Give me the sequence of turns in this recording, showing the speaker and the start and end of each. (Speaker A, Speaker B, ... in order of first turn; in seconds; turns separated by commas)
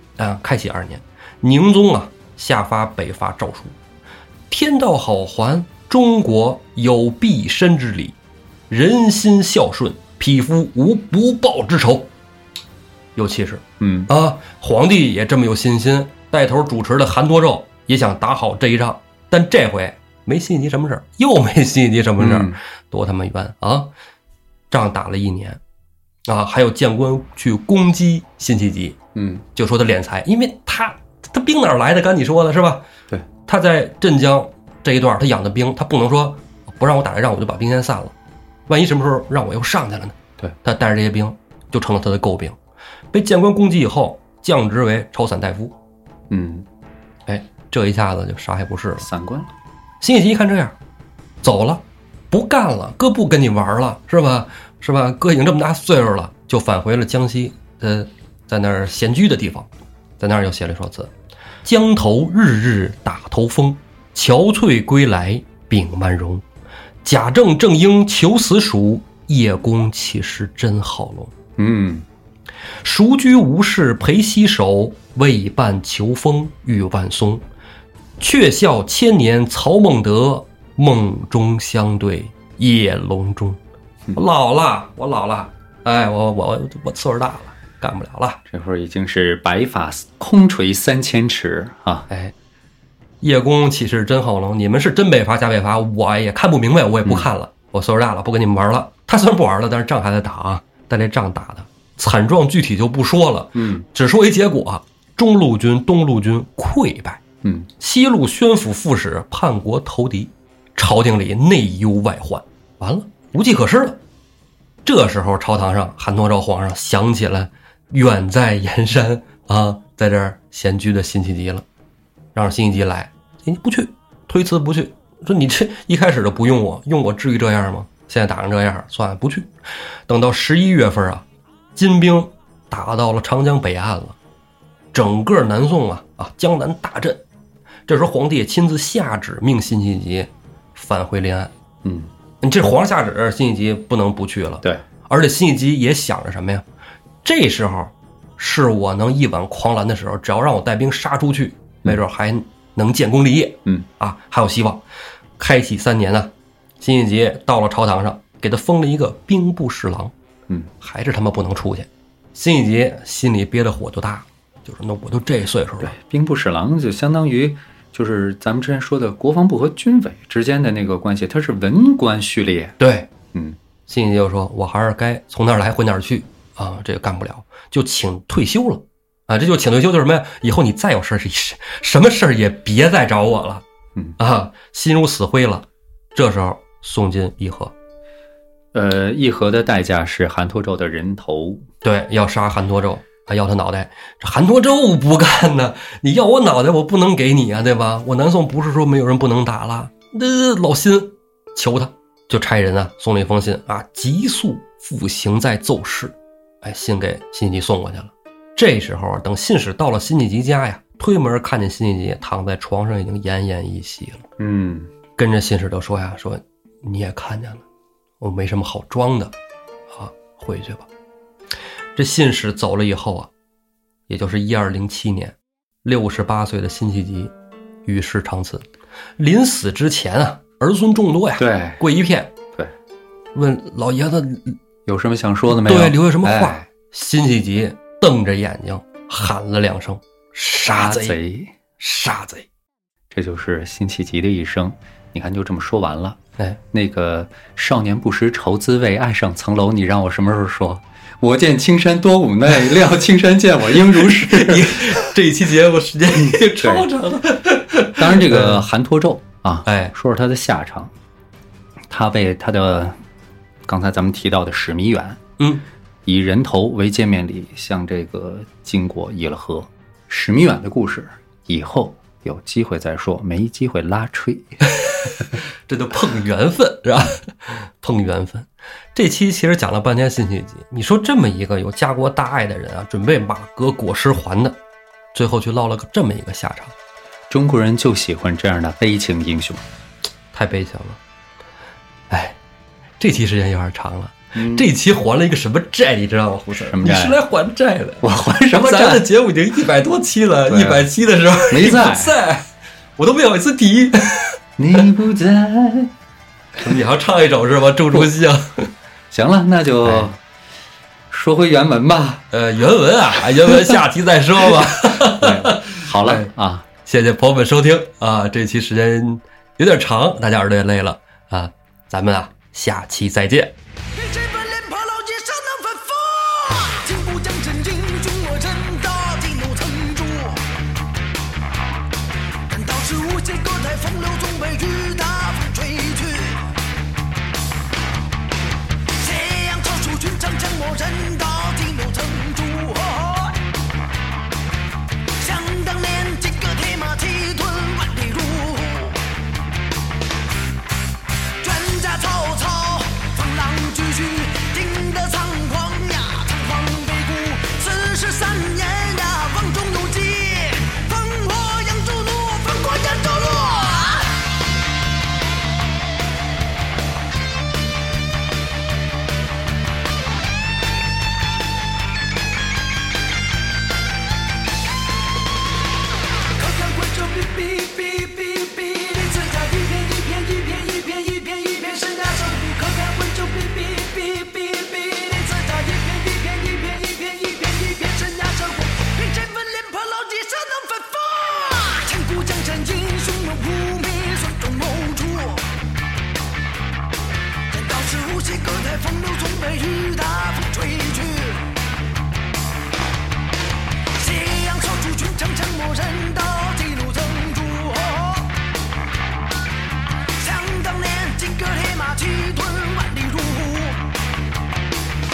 Speaker A: 0.2-3.8, Speaker A: 4.5-8.2, Speaker A: 8.7-12.1, Speaker A: 13.2-23.9, Speaker B: 13.8-14.1, Speaker B: 22.2-22.6, Speaker A: 24.7-25.6, Speaker A: 26.3-29.0, Speaker B: 29.1-29.4, Speaker A: 29.6-32.9, Speaker A: 33.5-38.1, Speaker A: 38.7-42.6, Speaker A: 43.1-45.8, Speaker B: 46.3-46.7, Speaker A: 47.3-49.1, Speaker B: 49.0-49.5, Speaker A: 50.0-50.8, Speaker A: 51.4-61.1, Speaker A: 61.6-66.5, Speaker A: 67.0-71.3, Speaker B: 71.6-72.1, Speaker A: 72.8-77.4, Speaker A: 78.2-83.6, Speaker A: 84.2-88.4, Speaker B: 88.5-92.1, Speaker A: 93.2-107.2, Speaker B: 103.5-103.9, Speaker B: 107.4-107.7, Speaker A: 107.8-114.0, Speaker A: 114.8-121.7, Speaker A: 122.3-129.5, Speaker A: 130.1-131.2, Speaker A: 131.8-134.2, Speaker A: 134.9-137.2, Speaker A: 137.9-141.5, Speaker B: 141.8-142.1, Speaker A: 142.4-146.7, Speaker A: 147.2-154.8, Speaker A: 155.4-160.1, Speaker A: 160.8-165.9, Speaker B: 165.8-172.8, Speaker A: 172.8-173.1, Speaker B: 173.3-173.6, Speaker A: 173.9-183.6, Speaker A: 184.2-187.7, Speaker B: 188.7-191.7, Speaker A: 191.8-214.2, Speaker B: 214.4-214.9, Speaker A: 215.2-217.6, Speaker A: 218.2-219.3, Speaker A: 219.9-220.9, Speaker A: 222.0-223.3, Speaker A: 224.1-227.3, Speaker A: 227.8-228.7, Speaker A: 229.2-232.3, Speaker B: 231.4-231.8, Speaker A: 233.3-234.6, Speaker B: 234.9-236.7, Speaker A: 235.5-241.2, Speaker B: 240.7-241.6, Speaker A: 241.8-242.5, Speaker B: 243.1-255.2, Speaker A: 253.7-258.7, Speaker B: 256.3-256.9, Speaker B: 257.9-260.9, Speaker A: 259.7-259.9, Speaker B: 261.9-263.0, Speaker B: 263.7-265.2, Speaker A: 265.4-265.6, Speaker B: 266.1-274.8, Speaker A: 274.8-275.1, Speaker A: 275.7-284.6, Speaker A: 285.1-286.7, Speaker B: 287.3-289.6, Speaker A: 290.3-291.0, Speaker A: 292.1-292.4, Speaker A: 293.0-304.4, Speaker B: 294.3-294.7, Speaker B: 296.5-297.2, Speaker B: 298.0-299.1, Speaker B: 300.5-300.9, Speaker B: 301.5-302.2, Speaker B: 304.6-305.9, Speaker A: 306.6-308.7, Speaker B: 309.1-310.2, Speaker A: 309.8-310.1, Speaker B: 311.1-312.2, Speaker A: 312.3-323.6, Speaker B: 314.9-316.7, Speaker C: 323.9-330.4, Speaker C: 332.5-336.5, Speaker C: 339.0-343.4, Speaker C: 345.2-349.0, Speaker C: 351.4-364.2, Speaker C: 376.4-395.4, Speaker C: 397.5-401.5, Speaker C: 404.0-408.3, Speaker C: 410.2-413.9